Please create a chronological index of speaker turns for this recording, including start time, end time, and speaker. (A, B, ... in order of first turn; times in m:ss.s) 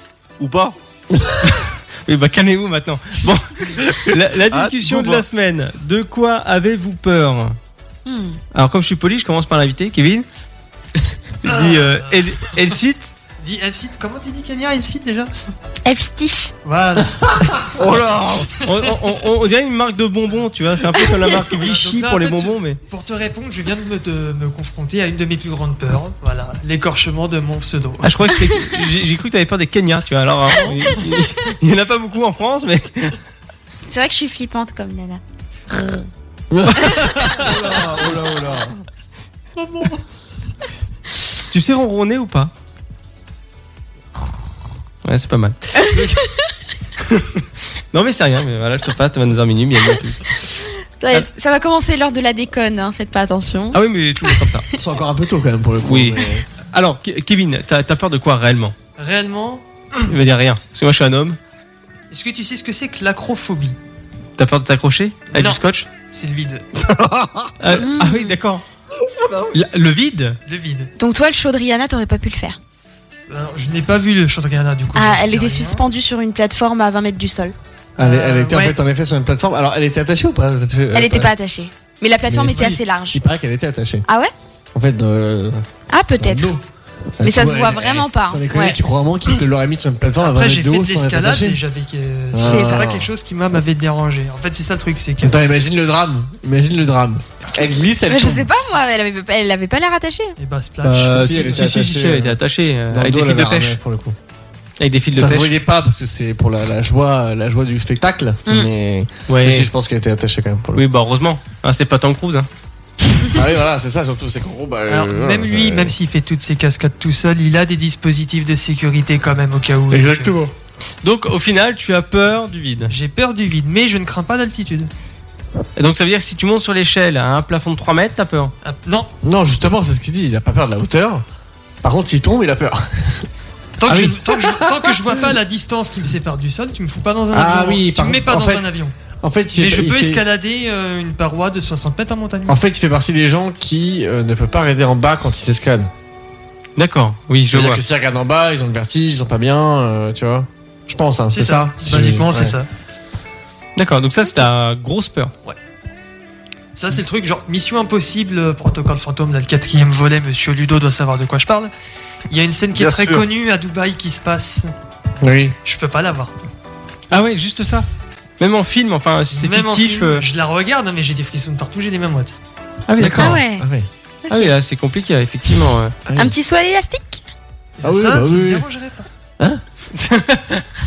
0:00.4-0:00.8 A
0:01.5-0:07.6 B
0:04.5-0:05.2 A
0:08.1-0:08.4 C
0:08.5-0:10.3 B
0:11.4-0:13.1 B
0:11.4-0:12.6 D
0:13.4-0:15.3 D
0:15.8-0:16.5 C
0:16.6-0:17.7 D
0:17.8-0:18.4 A
0:17.9-0:22.8 B
0:21.5-0:28.3 D
0:28.0-0:33.2 B
0:33.9-0:36.1 C
0:36.5-0:38.7 E
0:36.8-0:37.5 B
0:39.6-0:40.0 D
0:41.5-0:42.5 B
0:45.0-0:46.2 B
0:45.8-0:46.3 C
0:47.1-0:50.5 B
0:51.0-0:54.4 C
0:53.7-0:54.7 B
0:54.8-0:56.5 E
0:55.8-0:58.8 B
0:59.0-1:00.1 D
1:00.1-1:01.4 B
1:02.1-1:03.8 D
1:04.4-1:05.9 B
1:05.3-1:06.7 D
1:07.0-1:07.5 A
1:07.6-1:08.6 B
1:07.8-1:08.4 C
1:09.5-1:10.4 B
1:10.5-1:10.9 D
1:11.0-1:12.6 C
1:13.3-1:15.8 D
1:14.9-1:17.6 C
1:18.0-1:18.8 D
1:18.0-1:21.3 E
1:20.9-1:23.2 C
1:22.3-1:24.0 E
1:22.5-1:22.8 D
1:24.1-1:24.3 C
1:24.7-1:25.6 E
1:25.9-1:26.5 C
1:26.2-1:26.6 E
1:27.2-1:31.6 E
1:27.2-1:28.8 C
1:30.2-1:35.4 D
1:32.3-1:33.1 E
1:32.4-1:32.9 C
1:35.2-1:38.5 E
1:38.1-1:40.4 C
1:40.4-1:41.7 D
1:40.8-1:42.4 E
1:40.9-1:43.8 B
1:42.9-1:44.2 E
1:44.8-1:45.5 B
1:45.2-1:50.8 E
1:49.3-1:49.7 B
1:50.8-1:52.5 B
1:53.3-1:56.0 E
1:54.9-2:00.4 D
1:59.9-2:00.5 E
2:01.0-2:02.9 B
2:02.9-2:04.9 D
2:05.8-2:08.5 B
2:08.6-2:09.1 D
2:09.2-2:11.2 E
2:11.8-2:13.3 E
2:13.8-2:19.0 D
2:13.9-2:15.3 E
2:17.3-2:18.7 E
2:19.2-2:20.2 E
2:19.6-2:22.6 D
2:22.5-2:25.9 E
2:26.8-2:27.8 B
2:27.5-2:32.6 E
2:31.3-2:32.7 D
2:33.8-2:35.3 B
2:36.8-2:41.7 D
2:42.3-2:44.7 D
2:42.8-2:43.2 A
2:45.2-2:45.6 E
2:45.6-2:46.3 D
2:47.1-2:47.9 B
2:48.4-2:50.2 B
2:49.3-2:52.4 D
2:52.9-2:53.4 B
2:53.0-2:53.9 E
2:53.2-2:53.7 C
2:54.3-2:54.5 C
2:54.3-2:56.0 B
2:56.1-2:56.4 E
2:56.2-2:57.2 C
2:57.8-2:59.1 D
2:57.8-2:58.7 E
2:59.9-3:00.7 B